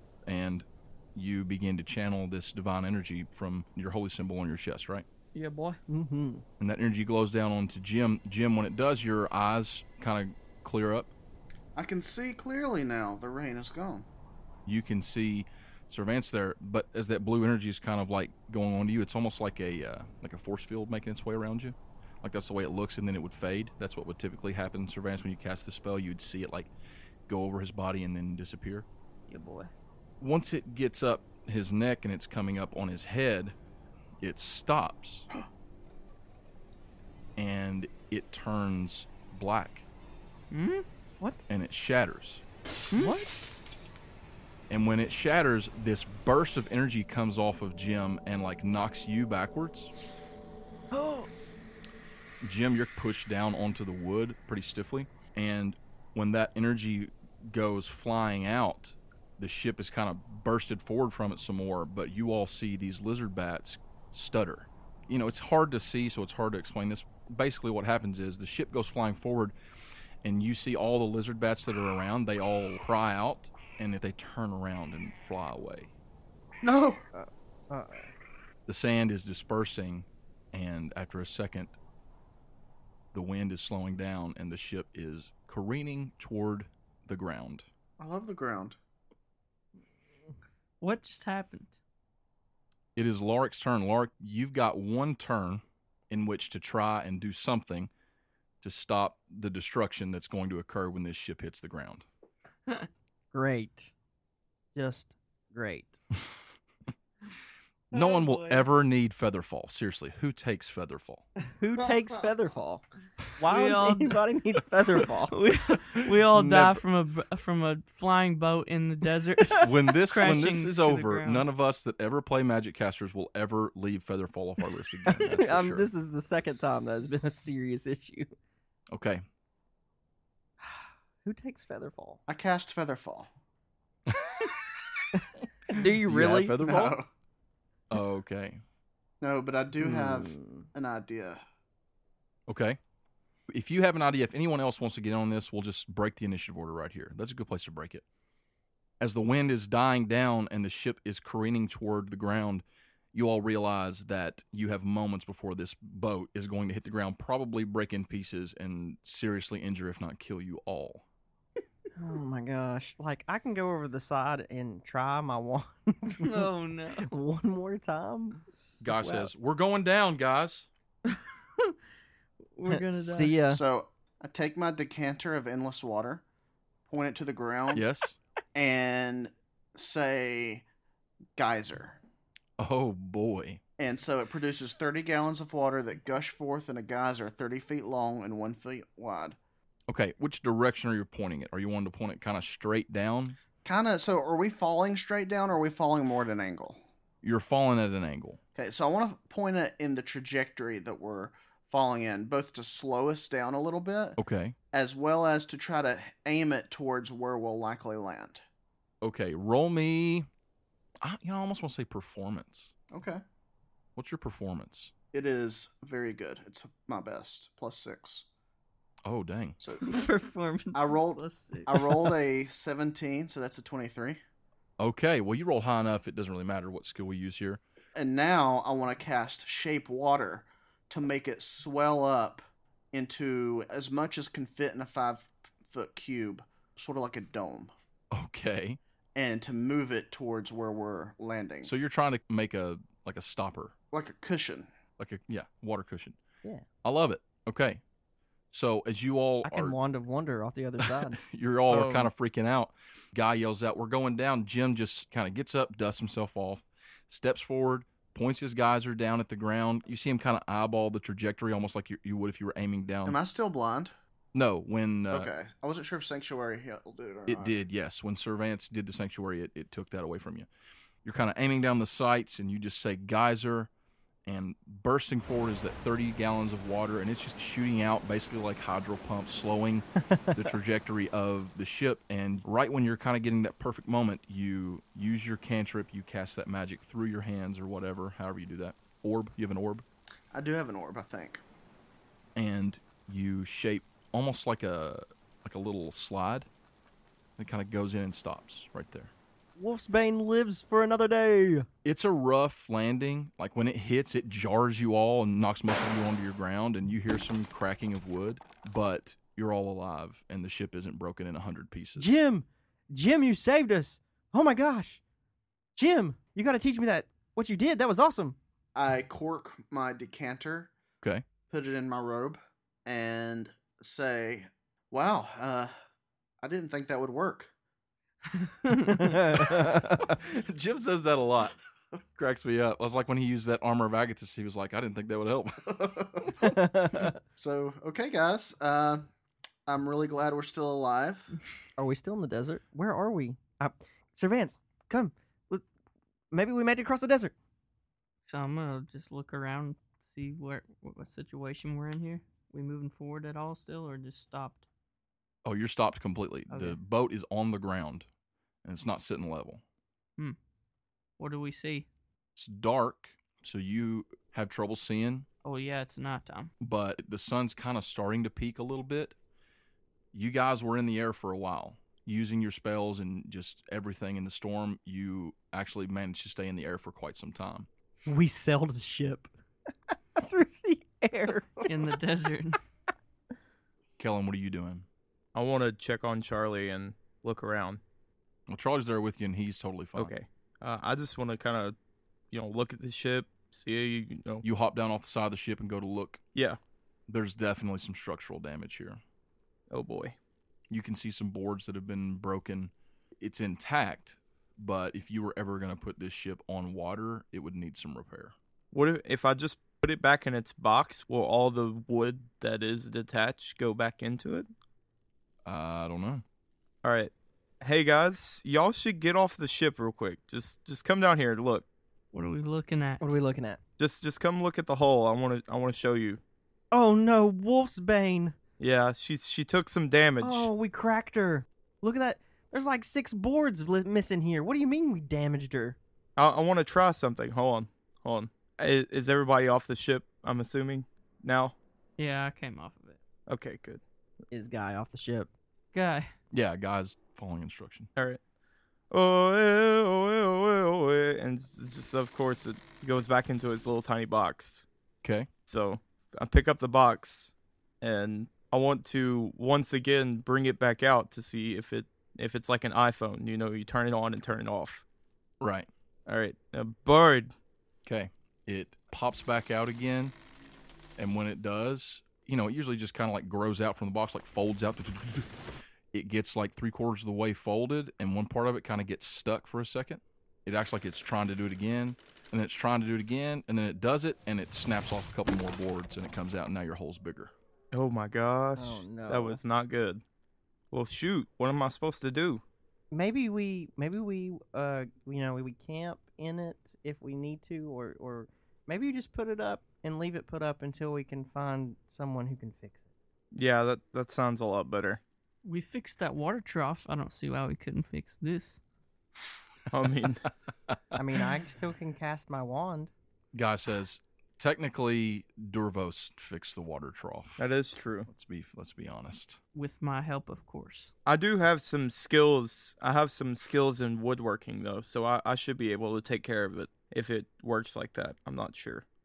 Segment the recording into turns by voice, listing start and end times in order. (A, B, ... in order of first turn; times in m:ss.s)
0:00.2-0:05.0 A
0:05.3-0:05.8 B
0:05.9-0:06.4 C
0:06.6-0:11.1 A
0:11.8-0:14.1 D
0:14.6-0:26.7 A
0:27.3-0:28.9 A
0:29.3-0:29.7 B
0:30.2-0:33.5 A
0:34.2-0:35.3 A
0:37.4-0:39.9 A
0:40.5-0:40.8 B
0:41.5-0:42.4 A
0:42.9-0:43.4 C
0:44.7-0:49.9 A
0:50.9-0:51.3 C
0:52.4-1:09.5 A
1:10.2-1:15.9 A
1:16.6-1:17.0 D
1:17.1-1:18.1 C
1:18.7-1:21.8 A
1:23.1-1:27.6 A
1:28.0-1:28.8 D
1:30.8-1:31.8 B
1:33.0-1:37.9 A
1:38.6-1:42.0 A
1:43.3-1:43.9 C
1:44.7-1:46.0 C
1:47.9-1:51.3 A
1:47.9-1:48.6 B
1:51.6-1:52.8 C
1:53.4-1:55.3 C
1:53.4-1:54.2 B
1:55.3-2:01.4 B
1:56.3-1:56.8 C
1:59.6-2:05.9 A
2:05.0-2:08.3 C
2:08.9-2:09.2 A
2:11.2-2:12.2 C
2:12.3-2:13.3 D
2:14.1-2:14.5 A
2:15.2-2:16.7 C
2:16.0-2:17.0 A
2:16.6-2:17.1 D
2:17.9-2:18.6 A
2:19.2-2:21.4 D
2:19.8-2:20.6 C
2:22.5-2:22.8 A
2:23.5-2:28.0 A
2:29.0-2:41.0 A
2:42.0-2:46.5 C
2:46.2-2:47.1 B
2:47.0-2:48.4 C
2:48.8-2:50.7 A
2:49.0-2:49.3 C
2:52.5-2:53.4 B
2:52.7-2:53.6 C
2:53.5-2:56.2 D
2:56.9-2:57.8 D
2:57.7-2:58.2 A
2:58.5-3:00.6 D
3:01.4-3:02.0 D
3:02.6-3:03.6 A
3:03.8-3:09.4 D
3:09.9-3:13.4 A
3:13.6-3:16.8 D
3:17.2-3:18.4 A
3:18.6-3:24.2 D
3:24.2-3:24.6 A
3:24.7-3:28.4 D
3:29.0-3:30.3 A
3:31.0-3:32.7 A
3:32.9-3:33.2 D
3:34.0-3:34.9 A
3:35.1-3:38.3 D
3:39.0-3:39.6 A
3:39.6-3:40.0 D
3:39.8-3:42.1 B
3:40.7-3:44.2 D
3:44.8-3:47.6 A
3:47.9-3:52.4 D
3:52.9-3:57.7 D
3:58.1-3:58.8 A
3:59.1-4:01.7 D
4:01.6-4:03.7 A
4:03.9-4:04.7 D
4:05.0-4:06.2 A
4:06.8-4:07.8 A
4:08.5-4:09.8 A
4:09.4-4:11.2 C
4:10.8-4:23.2 A
4:11.7-4:12.1 E
4:23.0-4:23.9 D
4:24.3-4:25.3 A
4:25.1-4:27.6 D
4:27.3-4:30.5 A
4:31.0-4:33.7 A
4:34.2-4:49.8 A
4:50.3-4:51.4 D
4:52.4-4:56.5 A
4:57.4-4:59.1 A
4:59.6-5:01.7 C
5:01.8-5:12.1 A
5:12.0-5:15.0 C
5:15.8-5:18.4 C
5:18.7-5:20.7 D
5:21.5-5:25.7 D
5:26.4-5:27.5 D
5:28.6-5:29.2 B
5:28.8-5:30.2 C
5:29.4-5:31.6 A
5:32.2-5:36.3 A
5:35.7-5:36.6 D
5:36.4-5:37.2 C
5:37.4-5:39.1 D
5:39.7-5:41.3 D
5:41.8-5:45.6 C
5:46.3-5:47.3 C
5:48.3-5:54.7 B
5:55.4-5:58.1 A
5:56.5-5:56.8 B
5:58.6-5:59.6 A
6:01.2-6:01.9 B
6:02.4-6:05.3 A
6:05.4-6:06.5 B
6:06.6-6:09.2 A
6:10.1-6:17.7 A
6:18.0-6:19.3 C
6:20.2-6:21.6 C
6:21.6-6:22.6 B
6:24.0-6:24.8 A
6:25.3-6:27.8 E
6:28.5-6:30.1 A
6:30.0-6:31.8 E
6:32.3-6:34.4 E
6:34.4-6:36.2 A
6:37.1-6:39.0 A
6:39.7-6:40.2 E
6:40.7-6:48.3 A
6:48.7-6:54.5 E
6:55.4-6:56.2 A
6:56.8-7:01.7 E
7:02.1-7:03.2 B
7:03.0-7:03.6 C
7:03.8-7:06.2 E
7:06.7-7:08.4 C
7:08.6-7:10.5 E
7:10.2-7:15.8 C
7:16.2-7:21.5 E
7:22.0-7:23.0 B
7:23.3-7:23.8 E
7:24.3-7:25.3 C
7:25.7-7:26.1 B
7:26.3-7:27.9 A
7:28.9-7:34.6 E
7:35.0-7:35.3 A
7:35.4-7:44.8 E
7:45.4-7:45.7 A
7:46.1-7:47.3 E
7:47.8-7:50.1 A
7:51.0-7:55.4 A
7:55.9-8:07.3 A
8:07.7-8:10.0 E
8:08.6-8:09.4 C
8:10.7-8:12.4 E
8:12.9-8:22.8 C
8:23.3-8:25.0 E
8:25.4-8:28.6 B
8:29.7-8:30.3 E
8:30.9-8:32.9 C
8:33.3-8:37.4 A
8:37.4-8:38.1 E
8:38.1-8:39.4 A
8:39.5-8:40.9 B
8:41.0-8:48.8 E